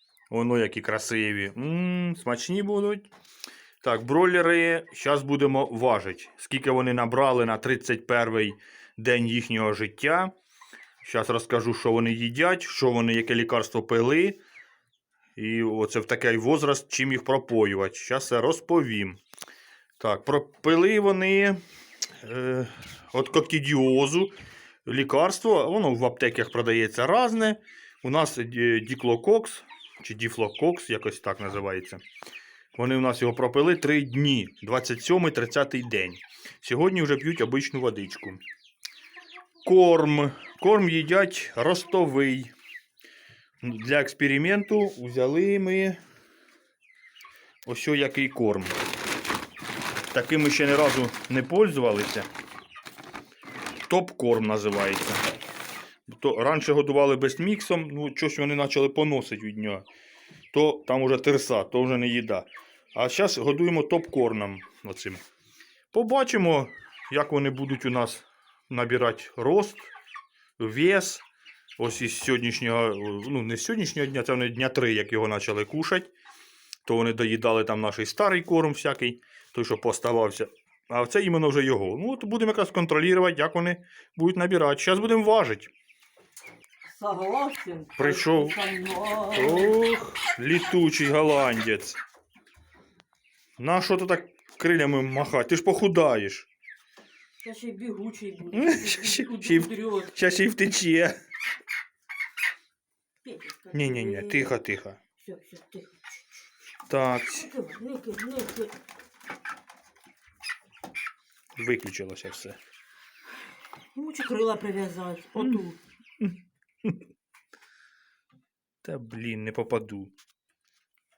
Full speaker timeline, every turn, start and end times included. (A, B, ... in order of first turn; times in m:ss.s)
0:00.3-0:03.1 A
0:03.8-0:10.3 A
0:11.0-0:14.4 A
0:15.4-0:19.2 A
0:20.0-0:21.6 A
0:22.2-0:24.3 A
0:24.9-0:32.0 A
0:32.8-0:38.4 A
0:39.6-0:42.5 A
0:43.6-0:46.0 A
0:47.7-0:48.8 A
0:50.1-0:52.3 A
0:53.9-0:55.3 A
0:56.1-0:59.9 A
1:00.5-1:05.2 A
1:05.9-1:09.9 A
1:10.6-1:11.2 A
1:11.8-1:16.1 A
1:16.9-1:25.7 A
1:26.8-1:29.8 B
1:28.0-1:28.6 A
1:29.3-1:32.0 A
1:33.6-1:36.5 A
1:37.4-1:40.2 B
1:38.5-1:41.2 A
1:43.2-1:44.6 B
1:43.7-1:45.0 A
1:45.2-1:46.1 B
1:46.9-1:47.5 A
1:47.3-1:48.8 B
1:51.6-1:52.6 A
1:54.0-1:55.8 B
1:56.2-1:56.9 A
1:58.8-2:00.1 A